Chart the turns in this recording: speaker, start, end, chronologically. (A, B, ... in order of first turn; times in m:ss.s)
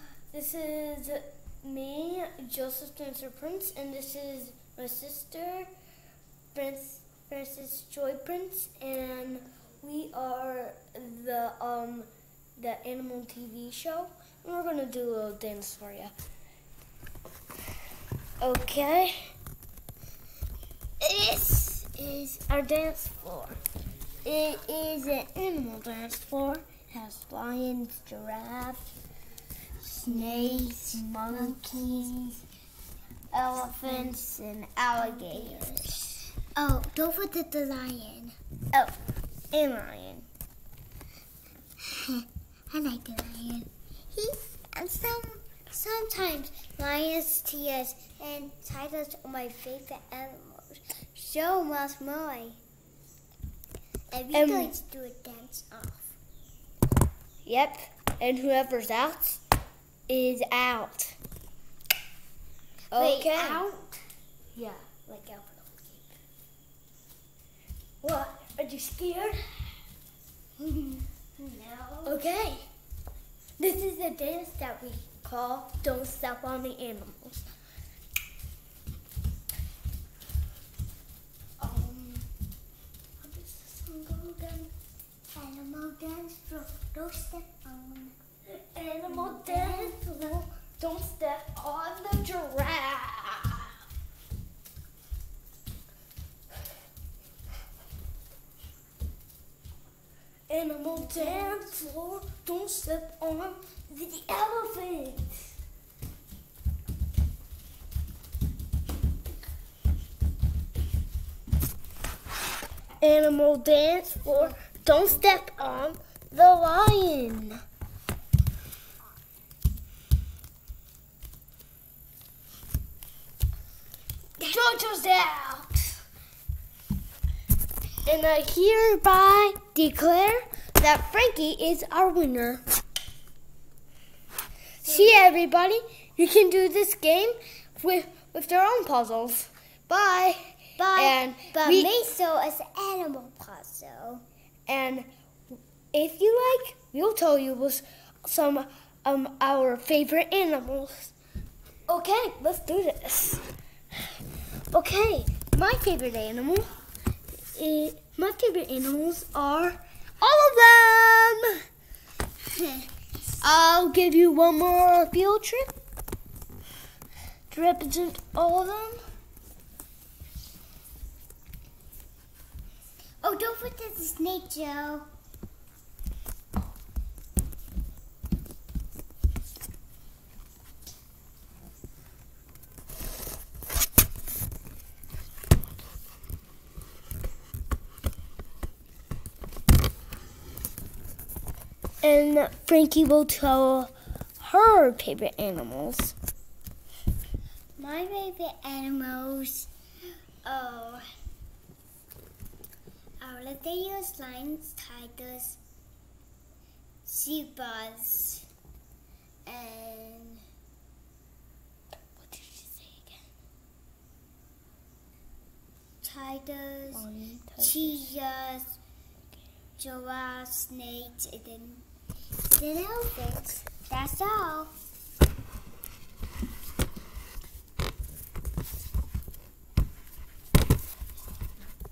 0:00.3-0:05.7 A
0:06.5-0:16.1 A
0:18.4-0:19.3 A
0:21.0-0:23.6 A
0:24.2-0:28.9 A
0:29.8-0:32.4 A
0:30.0-0:32.2 B
0:33.3-0:36.2 A
0:33.6-0:34.2 B
0:34.9-0:36.0 B
0:36.6-0:38.4 B
0:39.5-0:40.3 A
0:41.8-0:52.6 B
0:54.1-0:56.2 B
0:54.3-0:54.7 A
0:57.4-0:59.4 A
1:00.1-1:01.2 A
1:02.9-1:03.7 A
1:03.0-1:04.0 B
1:04.5-1:06.2 A
1:08.0-1:09.8 A
1:10.6-1:12.2 B
1:12.0-1:12.6 A
1:13.6-1:17.5 A
1:21.6-1:22.3 A
1:23.2-1:24.7 A
1:25.3-1:28.2 B
1:28.5-1:33.7 A
1:29.1-1:30.1 B
1:40.5-1:45.5 A
1:41.0-1:41.7 B
1:53.0-1:57.6 A
2:04.4-2:06.0 A
2:08.0-2:12.6 A
2:14.8-2:22.1 A
2:14.9-2:15.2 B
2:20.8-2:24.2 B
2:24.7-2:31.1 A
2:31.9-2:33.4 A
2:34.7-2:36.7 A
2:37.5-2:41.6 A
2:42.5-2:42.9 B
2:43.4-2:45.7 A
2:47.5-2:49.0 A
2:53.2-2:55.1 B
3:12.0-3:16.2 A
3:17.8-3:19.7 B
3:20.4-3:21.1 B
3:23.2-3:25.6 B
3:27.0-3:28.5 B
3:29.5-3:30.4 B
3:32.2-3:33.2 A
3:36.0-3:37.1 B
3:36.9-3:38.1 A
3:37.6-3:38.8 B
3:39.8-3:41.8 B
3:42.5-3:44.7 B